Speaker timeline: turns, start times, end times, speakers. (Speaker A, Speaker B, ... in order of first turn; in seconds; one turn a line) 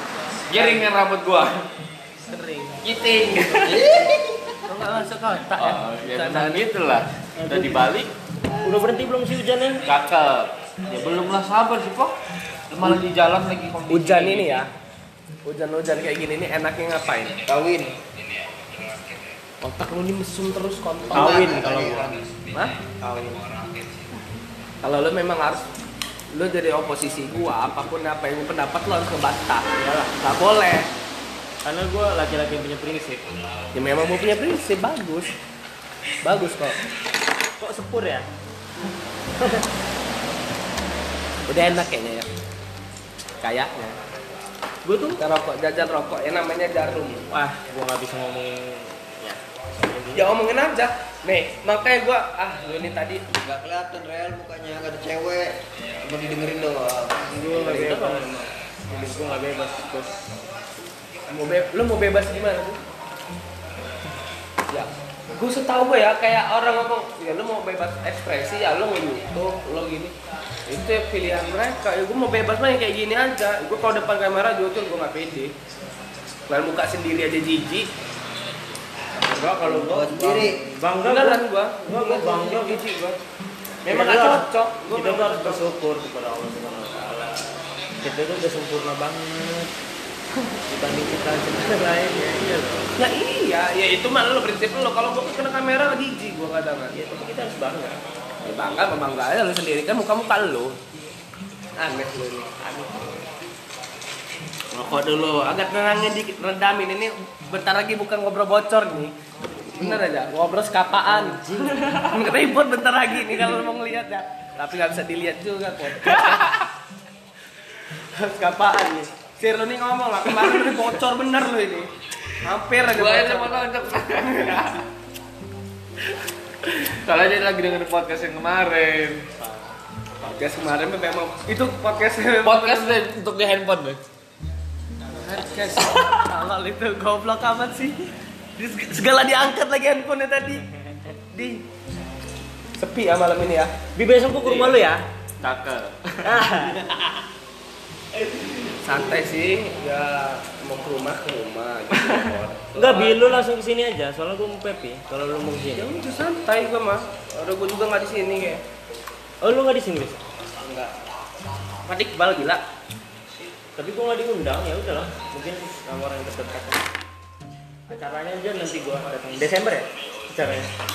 Speaker A: 0.5-1.6
Speaker B: 0.5-0.8
Speaker B: 2.2-2.8
Speaker A: 2.8-3.9
Speaker C: 3.5-4.5
Speaker B: 4.7-6.7
Speaker A: 5.6-8.1
Speaker D: 7.4-7.9
Speaker D: 8.6-9.8
Speaker A: 9.8-12.2
Speaker A: 12.7-14.6
Speaker B: 13.9-14.7
Speaker B: 15.4-17.4
Speaker C: 17.4-18.0
Speaker B: 19.6-21.5
Speaker C: 21.1-22.2
Speaker D: 21.1-22.2
Speaker B: 22.5-22.8
Speaker C: 23.0-23.4
Speaker B: 24.8-25.6
Speaker B: 26.3-29.6
Speaker D: 29.8-30.1
Speaker B: 30.2-30.9
Speaker D: 31.6-33.3
Speaker B: 33.7-35.3
Speaker B: 36.2-36.8
Speaker D: 37.6-38.3
Speaker B: 41.5-42.3
Speaker B: 43.4-44.0
Speaker D: 44.8-45.2
Speaker B: 45.2-47.3
Speaker D: 47.3-50.3
Speaker B: 50.1-53.2
Speaker C: 53.4-57.9
Speaker D: 57.3-60.3
Speaker B: 57.5-58.5
Speaker B: 61.3-62.8
Speaker B: 64.7-70.1
Speaker B: 70.7-75.5
Speaker B: 76.5-77.9
Speaker D: 79.2-82.8
Speaker C: 79.5-80.6
Speaker B: 81.0-83.2
Speaker B: 83.8-85.6
Speaker D: 83.9-89.7
Speaker D: 90.5-92.9
Speaker B: 93.0-97.0
Speaker D: 96.9-98.0
Speaker B: 98.4-100.8
Speaker B: 101.8-102.5
Speaker D: 102.6-103.3
Speaker B: 104.7-109.1
Speaker B: 109.7-116.6
Speaker D: 111.1-112.2
Speaker B: 118.1-121.9
Speaker B: 122.4-123.7
Speaker A: 122.9-124.9
Speaker A: 126.7-129.3
Speaker B: 130.2-133.0
Speaker A: 132.4-134.0
Speaker B: 135.2-138.0
Speaker B: 138.6-140.7
Speaker B: 141.3-141.6
Speaker B: 142.8-143.7
Speaker D: 143.9-145.0
Speaker A: 145.4-146.4
Speaker D: 146.2-146.8
Speaker B: 148.2-153.4
Speaker D: 152.8-155.9
Speaker B: 155.8-158.6
Speaker D: 159.4-160.2
Speaker B: 160.6-160.9
Speaker B: 161.8-162.6
Speaker D: 163.8-166.8
Speaker D: 167.9-170.7